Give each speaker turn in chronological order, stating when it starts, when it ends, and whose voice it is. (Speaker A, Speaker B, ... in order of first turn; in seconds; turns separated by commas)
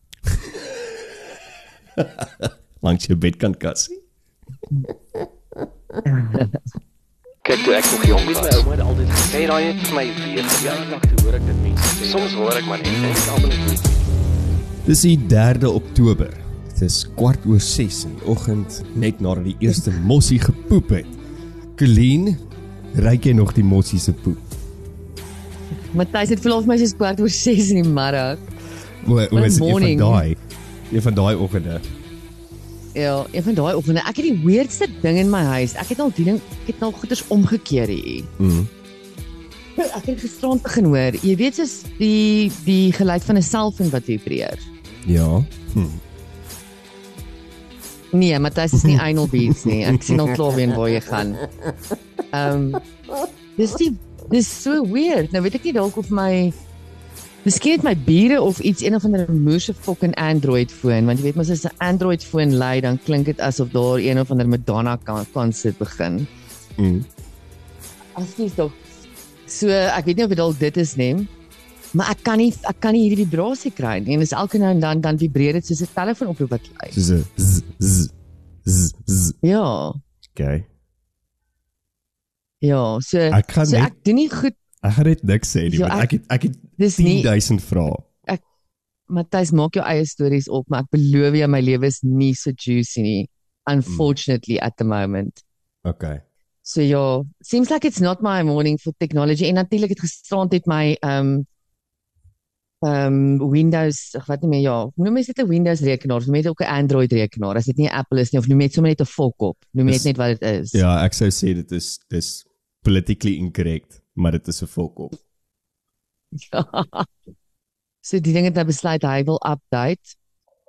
Speaker A: 0.3-0.7, Speaker A: 2.0-4.0, Speaker B: 6.1-6.5, Speaker C: 7.4-14.0, Speaker A: 14.8-21.1, Speaker A: 21.8-22.4, Speaker A: 22.9-24.4, Speaker B: 25.9-28.5, Speaker A: 29.0-30.4, Speaker B: 29.3-30.2, Speaker A: 30.9-31.9, Speaker B: 33.0-38.3, Speaker A: 38.4-38.7, Speaker B: 39.8-44.6, Speaker A: 45.0-46.0, Speaker B: 48.1-51.4, Speaker A: 48.8-50.2, Speaker B: 52.3-52.8, Speaker B: 53.6-56.5, Speaker B: 57.5-66.3, Speaker A: 66.8-67.1, Speaker B: 68.2-68.8, Speaker B: 69.5-71.3, Speaker B: 71.9-77.0, Speaker A: 76.9-78.1, Speaker A: 78.7-79.4, Speaker B: 79.4-80.0, Speaker A: 80.3-80.7, Speaker B: 82.6-84.6, Speaker A: 83.3-83.9, Speaker A: 84.8-88.1, Speaker B: 85.7-86.1, Speaker B: 86.8-87.3, Speaker B: 89.1-95.4, Speaker A: 93.9-94.1, Speaker A: 95.8-96.2, Speaker B: 96.7-101.5, Speaker B: 102.8-110.8, Speaker A: 110.7-115.2, Speaker B: 116.4-117.1, Speaker B: 118.0-120.2